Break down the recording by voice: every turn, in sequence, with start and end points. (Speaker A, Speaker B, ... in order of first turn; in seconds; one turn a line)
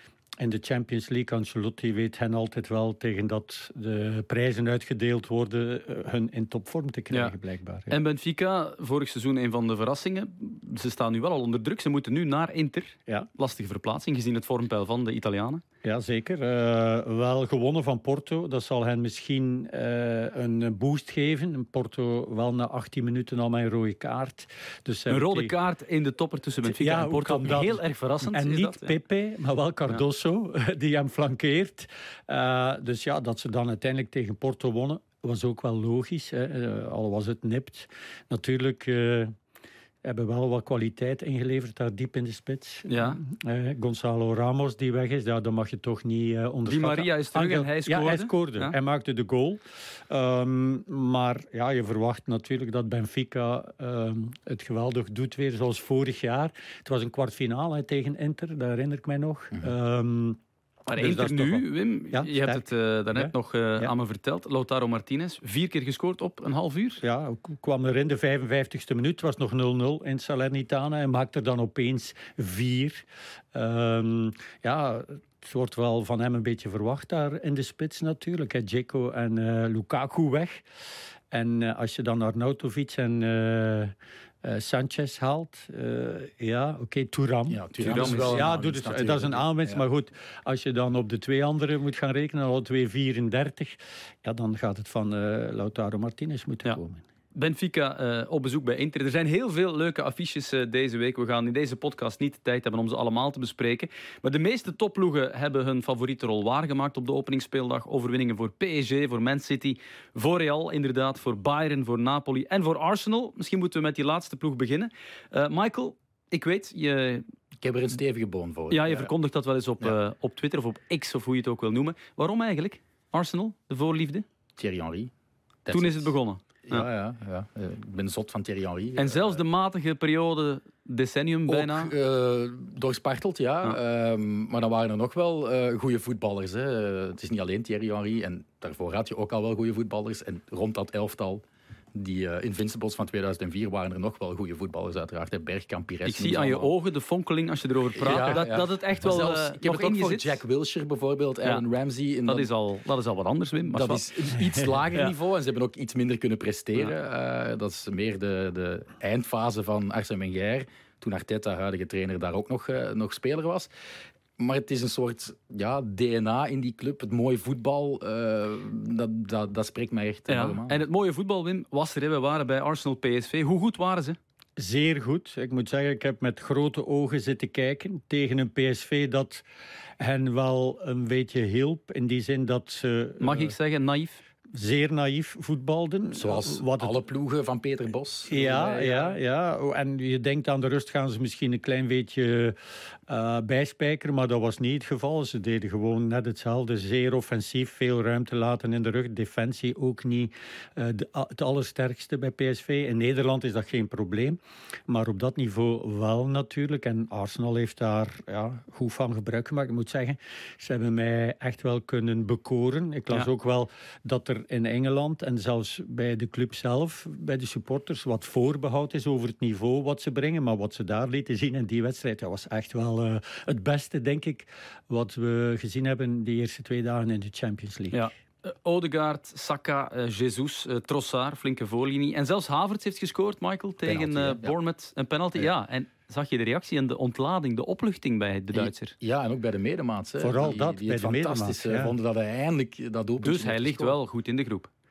Speaker A: 0.4-8.0
Speaker B: 7.9-15.6
Speaker A: 15.8-25.5
Speaker B: 25.1-29.0
Speaker A: 26.6-39.3
Speaker A: 40.0-60.4
Speaker B: 42.9-43.2
Speaker B: 46.7-48.8
Speaker B: 60.9-67.0
Speaker A: 60.9-63.9
Speaker A: 67.0-80.6
Speaker A: 81.3-97.0
Speaker C: 87.5-89.8
Speaker B: 87.8-88.5
Speaker B: 97.3-117.2
Speaker C: 117.6-119.1
Speaker B: 118.7-124.2
Speaker C: 124.6-125.1
Speaker C: 125.7-126.2
Speaker B: 125.7-126.9
Speaker C: 126.7-129.4
Speaker B: 129.0-131.9
Speaker C: 131.5-141.4
Speaker C: 141.9-146.7
Speaker B: 146.1-150.4
Speaker C: 148.0-152.5
Speaker B: 152.3-154.1
Speaker C: 153.7-163.7
Speaker C: 164.4-170.8
Speaker B: 170.3-174.2
Speaker A: 174.6-179.4
Speaker A: 180.0-183.5
Speaker B: 183.2-184.2
Speaker A: 184.5-186.9
Speaker C: 186.1-189.1
Speaker A: 188.3-192.6
Speaker B: 188.4-189.1
Speaker A: 193.1-228.0
Speaker B: 227.9-238.9
Speaker C: 233.8-234.5
Speaker C: 238.5-244.0
Speaker A: 240.2-241.9
Speaker B: 243.2-244.7